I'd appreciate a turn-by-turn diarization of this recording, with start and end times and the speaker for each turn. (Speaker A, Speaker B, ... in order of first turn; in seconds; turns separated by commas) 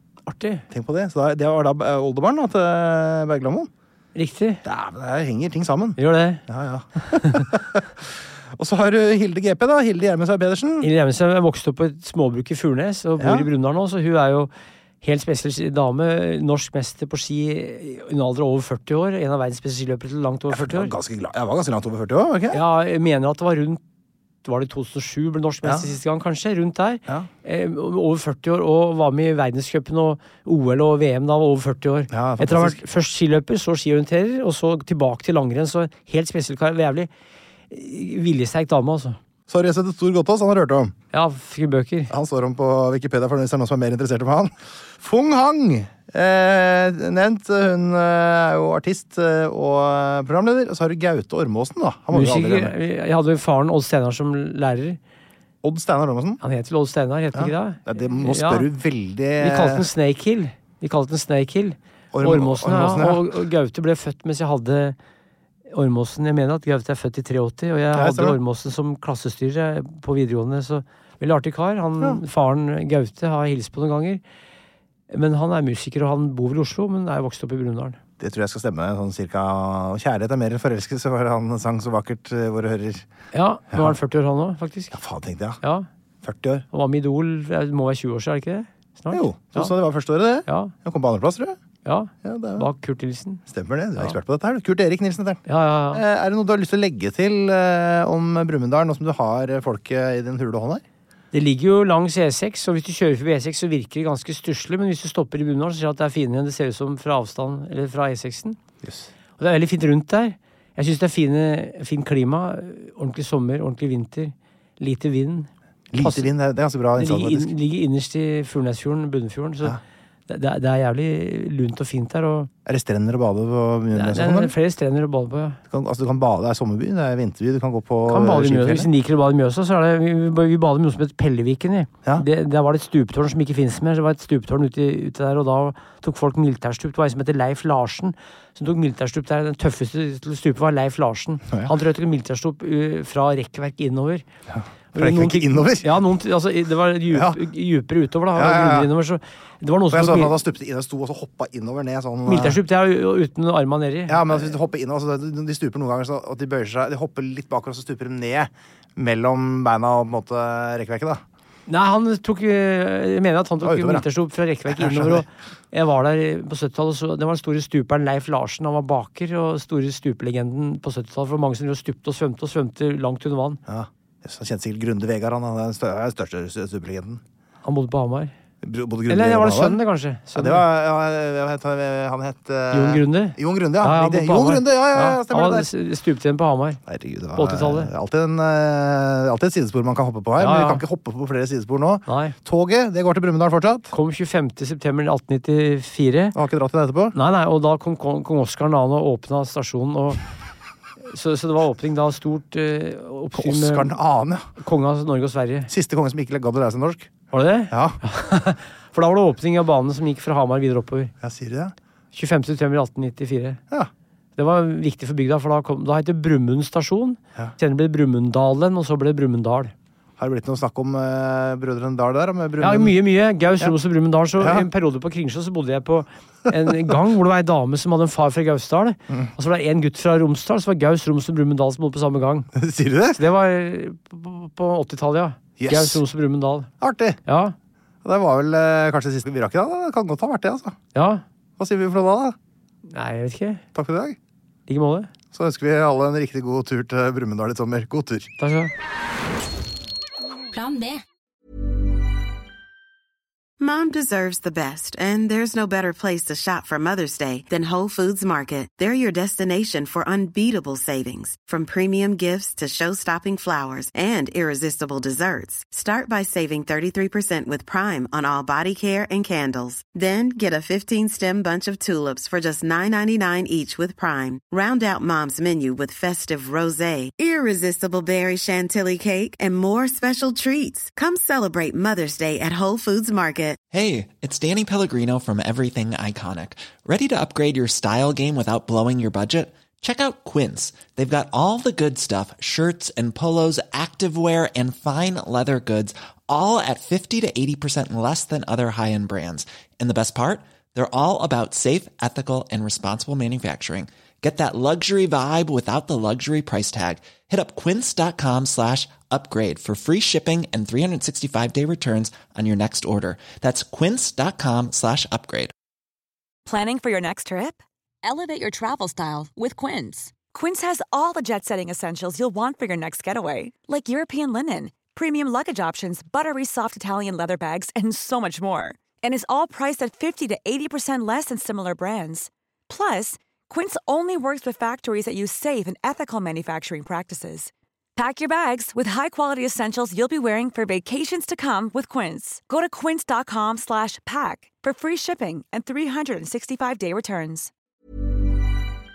Speaker A: 0.3-0.7, Speaker B: 0.7-3.7, Speaker A: 4.1-4.6, Speaker B: 4.6-10.9, Speaker A: 6.0-6.4, Speaker A: 7.1-7.5, Speaker A: 10.8-14.5, Speaker B: 13.2-13.5, Speaker A: 15.0-20.9, Speaker B: 20.5-22.6, Speaker A: 22.5-23.8, Speaker A: 24.4-37.1, Speaker B: 25.6-25.9, Speaker B: 32.1-32.8, Speaker A: 37.7-39.2, Speaker B: 39.5-40.9, Speaker A: 41.1-42.1, Speaker B: 42.1-52.7, Speaker A: 52.1-55.0, Speaker B: 55.6-56.4, Speaker A: 56.4-58.7, Speaker B: 57.3-59.9, Speaker A: 59.4-65.0, Speaker B: 62.1-63.4, Speaker A: 65.7-74.2, Speaker B: 67.9-68.4, Speaker A: 75.1-78.0, Speaker B: 78.2-83.1, Speaker A: 83.3-85.0, Speaker B: 84.9-85.6, Speaker A: 85.6-85.9, Speaker B: 86.2-86.6, Speaker A: 86.7-89.7, Speaker B: 89.1-91.6, Speaker A: 90.5-90.7, Speaker A: 91.8-93.4, Speaker B: 92.2-92.7, Speaker B: 93.5-95.4, Speaker A: 95.5-96.0, Speaker B: 95.9-100.8, Speaker A: 101.3-108.6, Speaker B: 108.8-109.1, Speaker A: 109.4-116.3, Speaker B: 115.9-117.5, Speaker A: 117.0-122.5, Speaker B: 122.6-124.5, Speaker A: 123.9-125.6, Speaker B: 125.7-128.9, Speaker A: 128.1-144.2, Speaker B: 144.5-146.0, Speaker A: 144.9-150.4, Speaker B: 147.1-147.4, Speaker B: 148.3-148.9, Speaker B: 149.9-152.6, Speaker A: 152.2-154.5, Speaker B: 154.1-161.2, Speaker A: 161.7-173.6, Speaker B: 163.6-164.1, Speaker B: 164.7-165.2, Speaker B: 173.7-177.2, Speaker A: 177.6-178.3, Speaker B: 178.6-179.8, Speaker A: 179.1-180.7, Speaker B: 180.3-185.7, Speaker A: 182.7-186.8, Speaker B: 186.8-193.9, Speaker A: 187.3-187.9, Speaker A: 190.4-190.8, Speaker A: 192.1-192.3, Speaker A: 193.9-196.3, Speaker B: 196.3-197.2, Speaker A: 197.1-200.2, Speaker A: 201.1-203.9, Speaker B: 203.3-204.5, Speaker A: 204.6-205.7, Speaker B: 205.7-207.1, Speaker A: 207.3-211.1, Speaker B: 207.7-208.0, Speaker B: 211.2-211.7, Speaker A: 212.1-213.6, Speaker A: 214.4-219.7, Speaker B: 220.2-222.9, Speaker A: 222.6-232.5, Speaker B: 224.4-224.7, Speaker B: 226.5-226.9, Speaker B: 232.5-233.2, Speaker A: 233.1-236.7, Speaker B: 235.6-236.0, Speaker B: 236.8-237.2, Speaker A: 237.2-237.5, Speaker B: 238.0-240.8, Speaker A: 240.9-241.2, Speaker B: 241.6-242.3, Speaker A: 242.9-243.6, Speaker B: 243.7-244.2, Speaker A: 244.7-245.1, Speaker B: 245.3-248.3, Speaker A: 248.4-248.7, Speaker C: 250.5-251.0, Speaker D: 253.6-283.6, Speaker E: 283.7-315.5, Speaker F: 316.5-317.6, Speaker C: 318.0-320.1, Speaker F: 320.3-347.5